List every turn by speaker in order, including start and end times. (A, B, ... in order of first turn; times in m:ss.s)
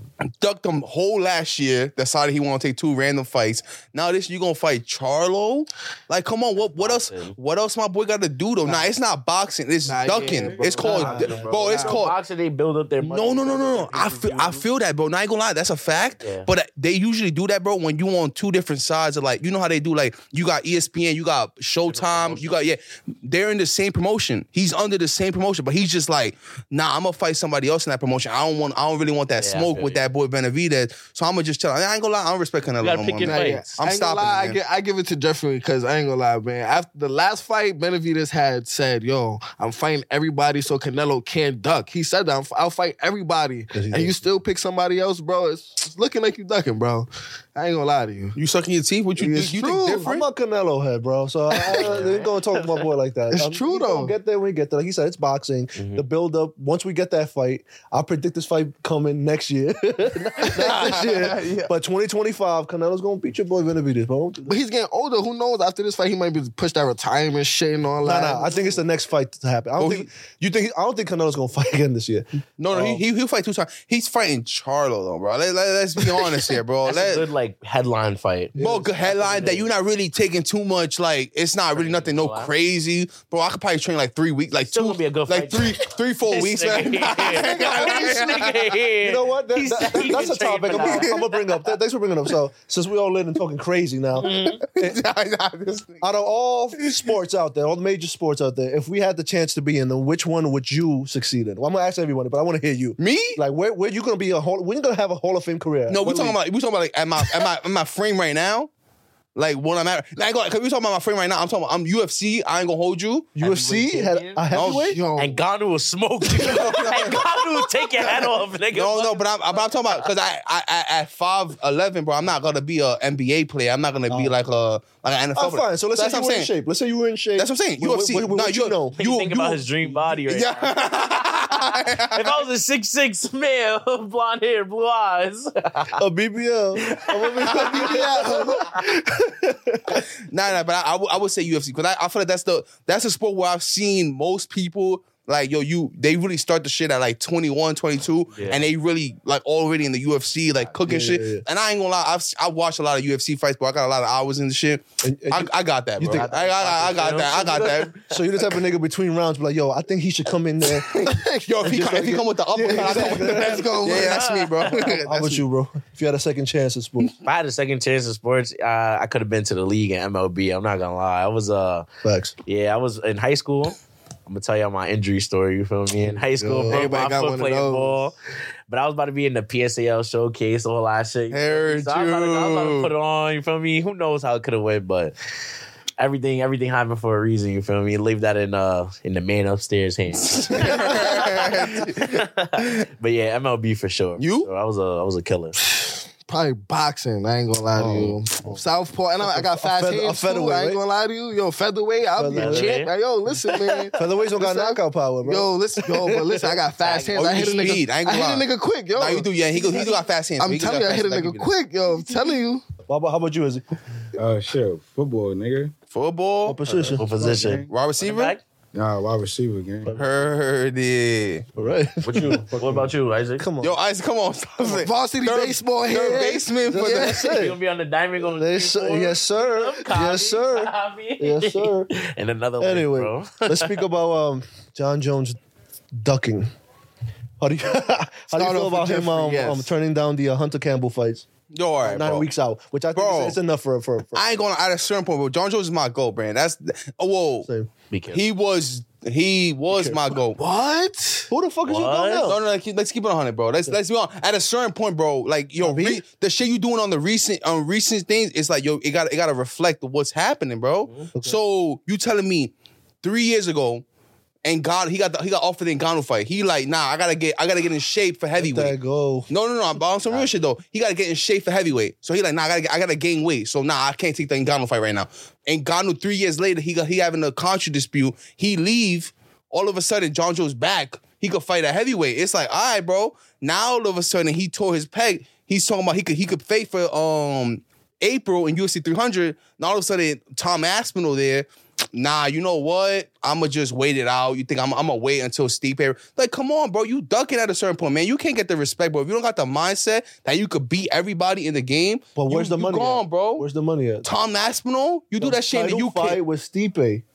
0:00.2-0:12.1 A
0:06.8-0:07.3 B
0:09.9-0:11.2 C
0:10.1-0:11.9 D
0:10.6-0:14.6 B
0:10.8-0:11.8 E
0:13.0-0:34.6 A
0:16.2-0:16.5 B
0:21.9-0:22.6 B
0:29.4-0:30.0 B
0:32.8-0:33.7 B
0:33.2-0:48.4 C
0:43.7-0:44.3 E
0:48.4-0:50.2 A
0:49.2-0:50.0 C
0:49.9-1:04.6 E
0:51.5-0:52.0 C
0:51.8-0:52.4 B
0:53.3-0:54.1 C
0:55.8-0:56.0 B
1:00.5-1:01.7 A
1:04.4-1:08.6 C
1:08.0-1:13.0 E
1:09.8-1:10.1 A
1:12.6-1:17.2 A
1:16.9-1:19.7 B
1:18.6-1:18.9 E
1:18.6-1:28.8 A
1:21.7-1:22.5 B
1:24.7-1:31.3 B
1:27.7-1:28.1 C
1:29.0-1:34.9 E
1:30.7-1:31.2 A
1:34.2-1:34.6 B
1:34.2-1:36.0 A
1:36.0-1:46.4 E
1:43.0-1:43.4 A
1:45.9-1:48.7 A
1:49.3-1:53.3 A
1:53.4-1:55.0 E
1:53.4-1:54.6 B
1:54.5-1:54.9 A
1:54.7-1:55.4 C
1:55.2-1:59.3 B
1:56.3-1:57.3 A
1:56.4-1:56.7 E
1:58.7-2:06.5 A
2:05.3-2:09.0 E
2:07.4-2:12.4 A
2:09.0-2:16.0 B
2:16.0-2:20.0 E
2:16.9-2:17.6 B
2:17.6-2:18.8 C
2:20.3-2:37.9 A
2:30.8-2:31.4 E
2:35.0-2:36.3 E
2:36.1-2:38.1 B
2:38.1-2:43.8 E
2:40.8-2:41.5 C
2:40.9-2:44.9 A
2:42.7-2:45.4 C
2:44.0-2:44.9 B
2:45.0-2:47.1 E
2:47.2-2:51.8 B
2:52.0-2:52.3 E
2:52.5-2:53.8 B
2:54.3-2:58.1 B
2:56.4-2:56.8 E
2:56.6-2:58.0 C
2:58.7-3:05.1 B
3:01.3-3:02.9 A
3:06.0-3:15.6 B
3:10.2-3:12.8 A
3:14.2-3:14.5 A
3:15.6-3:29.3 C
3:17.7-3:18.5 E
3:19.6-3:20.8 E
3:22.2-3:22.8 E
3:22.3-3:22.9 B
3:23.9-3:26.6 E
3:26.8-3:27.8 B
3:27.1-3:31.5 A
3:30.4-3:32.6 C
3:32.9-3:33.6 E
3:34.2-3:35.7 D
3:35.9-3:36.8 A
3:36.4-3:37.2 E
3:36.7-3:37.7 D
3:37.0-3:38.4 B
3:37.7-3:38.4 A
3:38.7-3:40.1 D
3:39.9-3:41.5 A
3:41.6-3:42.6 E
3:42.0-3:43.4 B
3:42.5-3:42.9 D
3:43.4-3:43.8 E
3:43.6-3:47.3 A
3:44.6-3:47.2 C
3:46.7-3:47.6 E
3:47.2-3:53.8 B
3:48.4-3:51.9 E
3:52.6-3:55.4 E
3:56.0-3:56.5 E
3:57.4-4:01.3 E
3:58.3-3:59.7 C
4:01.5-4:02.3 A
4:01.8-4:04.2 E
4:02.9-4:03.4 A
4:04.1-4:07.5 A
4:07.9-4:08.2 B
4:08.1-4:10.4 A
4:09.7-4:10.1 E
4:10.4-4:11.3 C
4:11.3-4:12.4 E
4:11.7-4:12.4 B
4:12.2-4:22.5 A
4:15.6-4:16.0 E
4:23.0-4:23.8 A
4:24.4-4:28.7 A
4:28.4-4:29.3 E
4:29.3-5:03.4 A
5:02.2-5:04.1 E
5:04.0-5:06.2 A
5:05.2-5:07.0 E